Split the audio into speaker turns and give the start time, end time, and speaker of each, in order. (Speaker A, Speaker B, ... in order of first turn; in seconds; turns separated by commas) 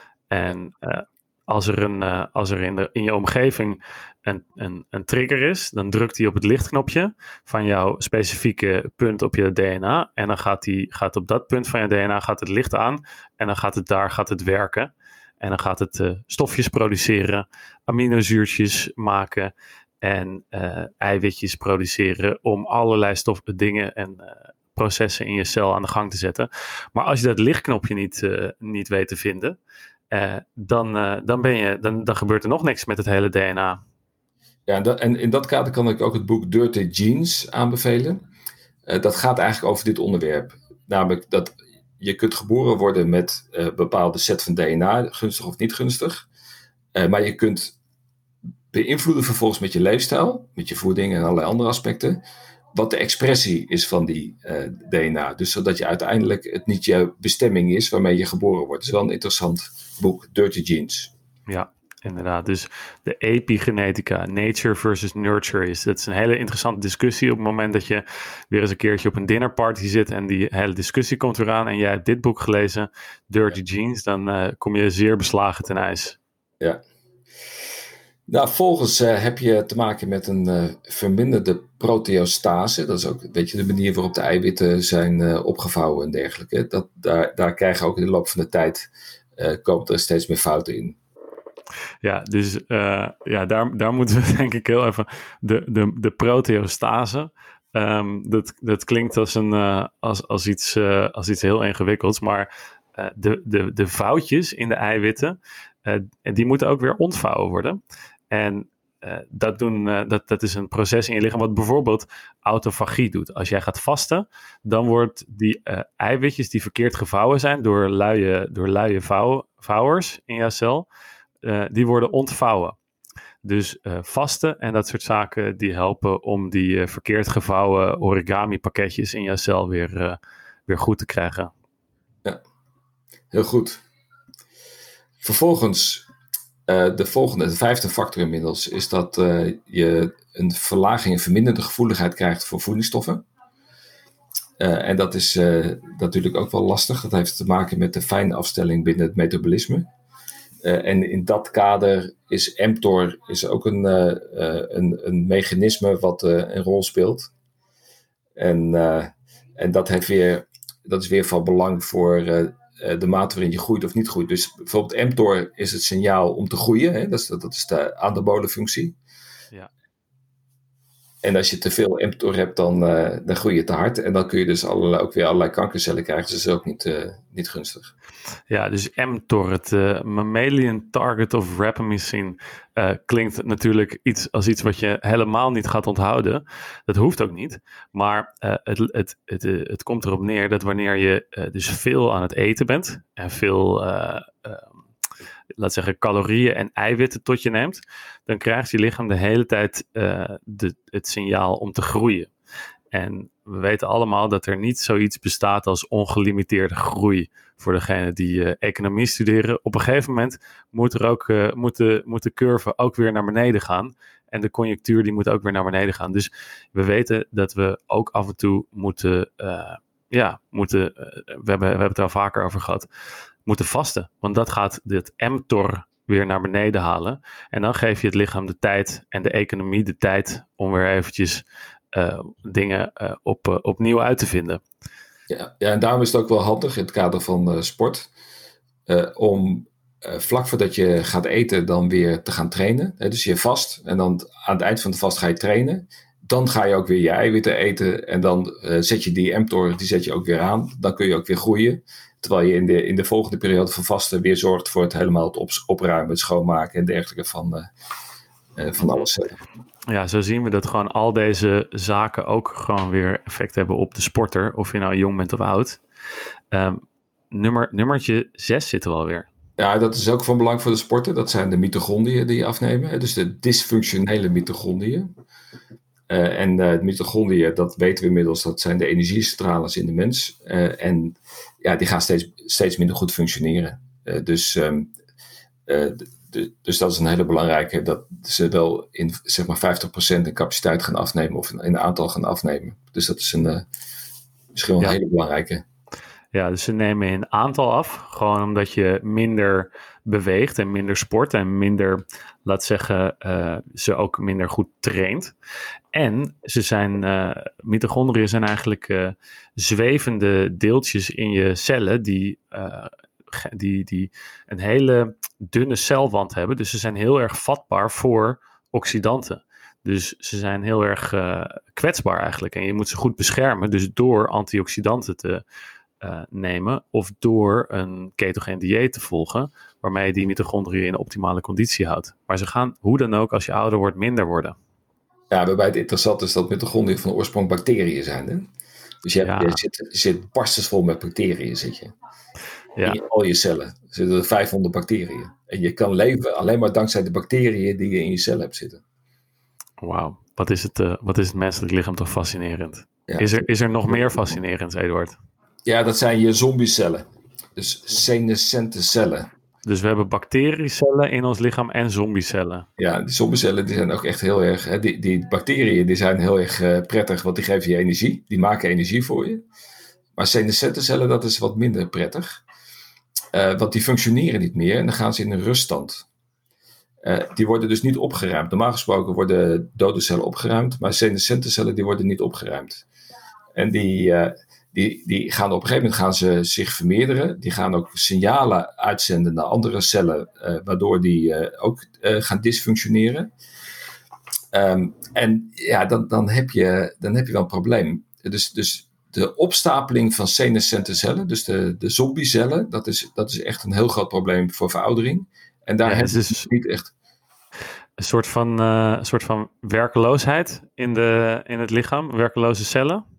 Speaker A: 0.3-29.6, Speaker A: 30.1-33.8, Speaker B: 34.7-38.2, Speaker B: 38.9-46.3, Speaker B: 46.9-47.7, Speaker B: 48.7-52.2, Speaker B: 52.7-61.1, Speaker A: 61.5-76.2, Speaker B: 78.3-91.0, Speaker A: 92.0-107.8, Speaker A: 108.3-120.9, Speaker A: 121.4-122.8, Speaker A: 123.4-131.5, Speaker B: 133.3-133.8, Speaker B: 135.2-136.1, Speaker B: 136.7-143.2, Speaker B: 144.6-149.9, Speaker B: 150.6-157.3, Speaker B: 158.4-168.9, Speaker B: 171.2-177.9, Speaker A: 178.5-194.8, Speaker A: 195.6-202.3, Speaker A: 202.9-222.9, Speaker A: 223.4-234.6, Speaker B: 235.3-238.1, Speaker B: 238.9-257.7, Speaker B: 258.6-259.4, Speaker A: 259.9-265.8, Speaker A: 266.5-269.3, Speaker B: 269.6-275.1, Speaker B: 276.1-284.9, Speaker B: 285.7-293.6, Speaker B: 294.5-295.6, Speaker A: 296.3-305.3, Speaker A: 305.9-325.4, Speaker A: 326.0-334.5, Speaker B: 335.3-338.5, Speaker B: 339.0-341.9, Speaker A: 339.2-339.6, Speaker B: 342.8-348.8, Speaker A: 349.8-355.2, Speaker B: 353.9-354.4, Speaker B: 355.6-359.3, Speaker A: 359.6-362.7, Speaker B: 362.8-369.4, Speaker B: 370.1-372.4, Speaker B: 373.3-376.1, Speaker B: 377.0-382.8, Speaker B: 383.5-393.3, Speaker B: 394.5-406.9, Speaker A: 405.8-406.5, Speaker A: 408.0-413.0